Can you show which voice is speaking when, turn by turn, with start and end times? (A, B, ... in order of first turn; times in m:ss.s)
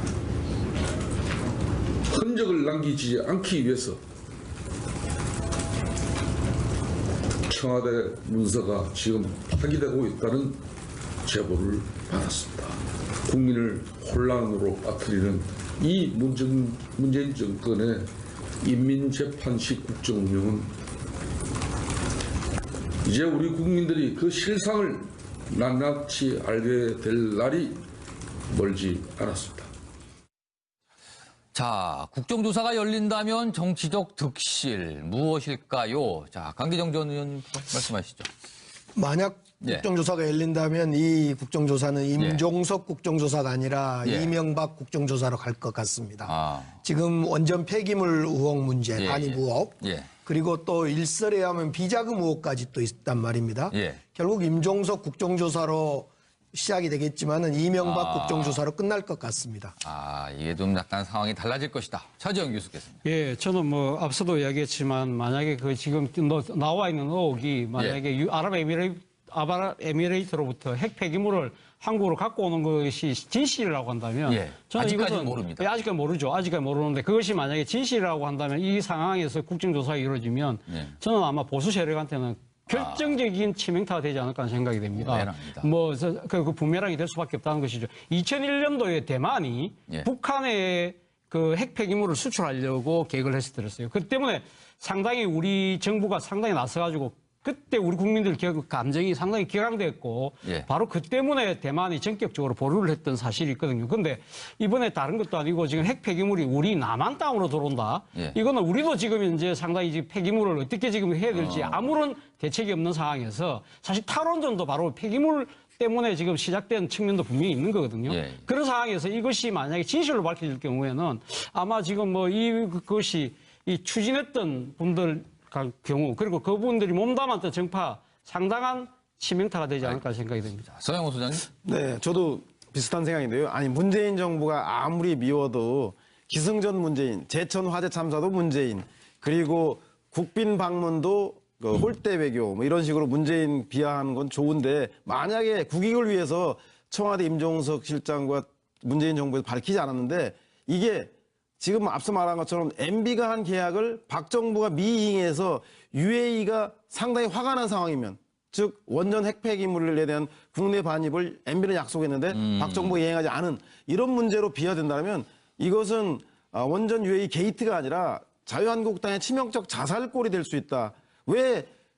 0:02.1-0:04.0 A
0:07.5-0:10.6 A
0:11.2-0:18.1 A
0:18.6-0:20.7 A
0:23.0-0:27.8 A
0:28.5-0:29.7 A
0:31.5-0:38.3 B
0:38.9-0:59.7 C
0:39.6-0:39.9 B
0:42.2-0:42.4 B
0:44.0-0:44.3 B
0:46.2-0:46.8 B
0:49.0-0:50.1 B
0:53.7-0:54.0 B
0:57.8-0:58.6 B
0:59.8-1:03.0 B
1:03.0-2:10.7 D
1:14.2-1:15.7 B
1:20.7-1:21.0 B
1:22.7-1:23.2 B
1:24.9-1:25.7 B
1:51.3-1:51.9 B
1:58.1-1:58.4 B
2:10.7-2:11.5 B
2:11.6-2:51.7 E
2:42.3-2:43.0 B